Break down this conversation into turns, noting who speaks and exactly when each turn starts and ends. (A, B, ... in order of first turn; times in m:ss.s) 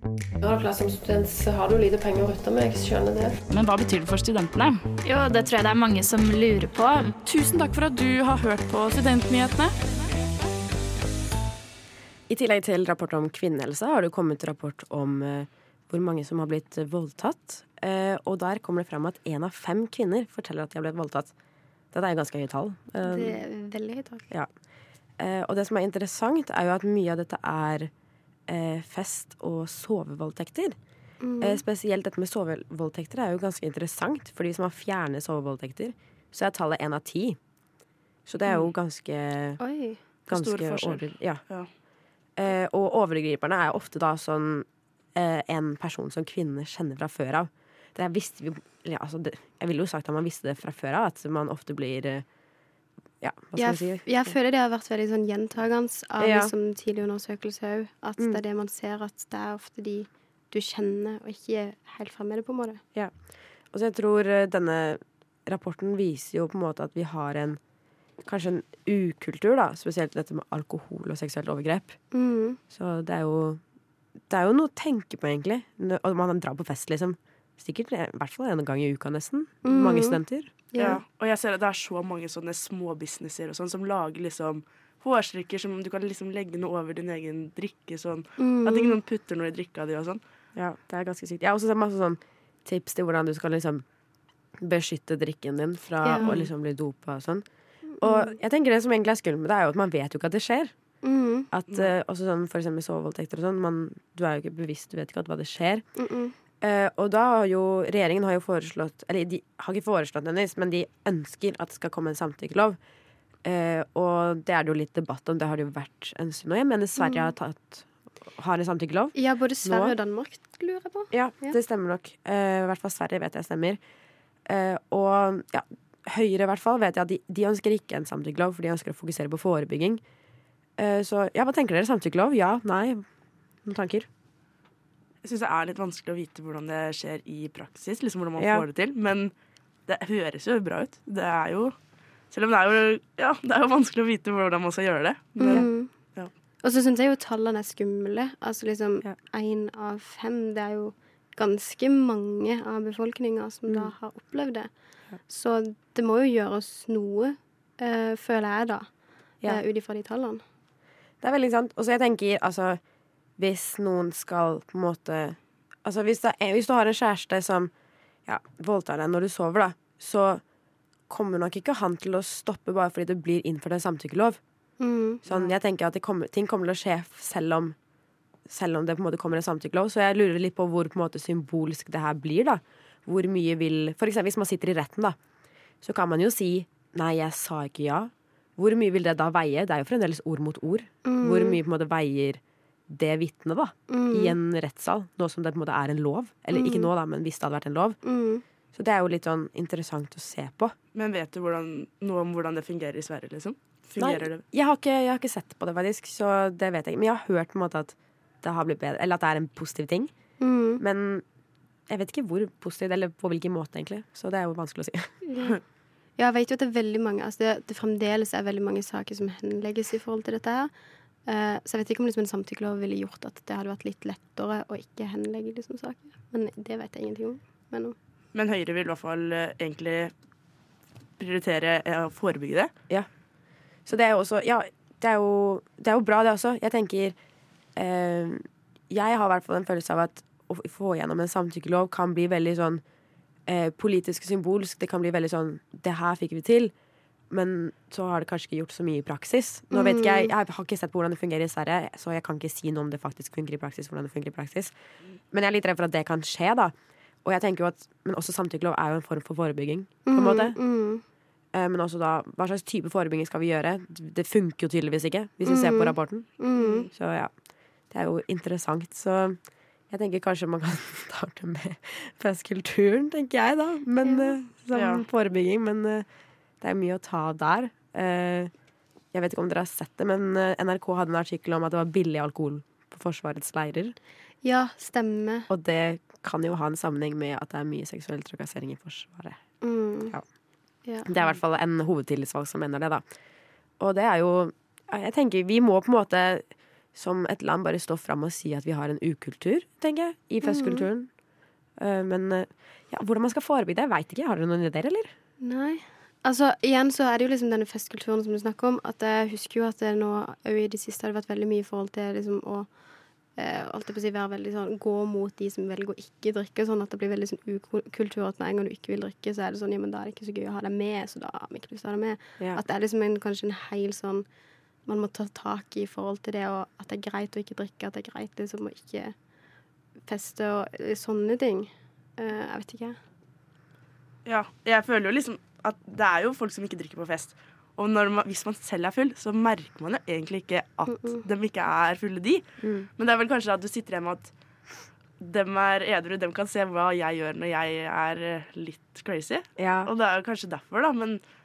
0:00.4-0:03.4 A
0:03.5-0:04.8 B
0:05.0-0:07.1 C
0:07.1-0:09.8 B
0:12.3-0:21.3 D
0:21.9-0:23.4 D
0:23.0-0:24.3 E
0:25.2-0:27.9 D
0:28.5-0:30.8 D
0:31.2-0:31.6 E
0:31.4-0:37.4 D
0:38.3-0:39.6 D
0:39.6-0:40.0 E
0:40.3-0:41.4 D
0:40.3-0:41.7 F
0:42.4-0:52.2 D
0:53.2-0:54.3 D
0:53.6-1:02.8 E
0:56.2-0:56.5 D
1:03.7-1:07.6 D
1:08.2-1:12.0 D
1:12.1-1:12.6 E
1:12.7-1:13.6 D
1:14.3-1:20.7 D
1:19.6-1:20.2 E
1:20.7-1:21.0 E
1:20.8-1:30.2 F
1:28.4-1:29.0 E
1:30.6-1:33.8 D
1:34.6-1:37.5 D
1:36.0-1:36.4 E
1:36.1-1:36.5 F
1:37.9-1:38.4 E
1:38.0-1:40.7 D
1:41.0-1:41.5 E
1:41.5-1:45.9 D
1:46.0-1:46.4 E
1:46.6-1:52.8 D
1:53.4-2:00.0 D
1:57.0-1:57.3 E
1:59.2-2:01.6 E
2:01.1-2:03.8 D
2:04.5-2:10.0 D
2:10.8-2:13.0 D
2:13.6-2:14.1 D
2:15.2-2:19.3 F
2:18.4-2:18.7 D
2:19.9-2:21.8 F
2:22.3-2:26.3 F
2:25.4-2:25.9 E
2:26.6-2:34.7 E
2:33.7-2:33.9 D
2:35.2-2:40.4 E
2:41.2-2:42.8 D
2:43.4-2:47.7 D
2:48.3-2:50.4 D
2:51.1-2:54.4 D
2:54.8-2:55.5 E
2:55.2-2:57.8 D
2:58.5-3:05.2 D
3:05.8-3:18.0 D
3:11.0-3:11.6 E
3:13.9-3:14.4 E
3:16.5-3:16.9 E
3:18.0-3:18.4 E
3:18.7-3:20.8 D
3:21.0-3:24.4 F
3:24.0-3:30.1 D
3:30.4-3:30.8 E
3:30.8-3:31.2 D
3:31.9-3:35.1 D
3:35.3-3:35.6 E
3:36.2-3:40.7 E
3:41.3-3:48.0 E
3:48.3-3:50.1 F
3:51.2-3:52.7 F
3:53.9-3:57.2 D
3:57.8-4:02.8 D
4:03.5-4:06.7 D
4:07.3-4:14.7 D
4:09.7-4:10.3 E
4:15.3-4:20.6 D
4:20.1-4:21.0 E
4:21.5-4:27.3 D
4:25.4-4:26.9 E
4:27.9-4:29.4 D
4:29.9-4:36.1 D
4:34.0-4:34.4 E
4:34.7-4:35.0 F
4:36.6-4:38.5 D
4:39.1-4:44.0 D
4:44.4-4:45.5 E
4:45.5-4:49.4 D
4:49.6-4:50.2 E
4:50.8-4:51.1 E
4:51.0-4:53.0 D
4:53.8-5:01.1 D
5:00.4-5:00.9 E
5:01.8-5:05.1 D
5:05.4-5:12.7 E
5:13.4-5:24.2 E
5:24.9-5:29.1 E
5:30.1-5:33.0 E
5:34.2-5:42.4 F
5:42.6-5:42.9 D
5:43.0-5:44.3 F
5:45.2-5:51.2 F
5:49.6-5:49.9 D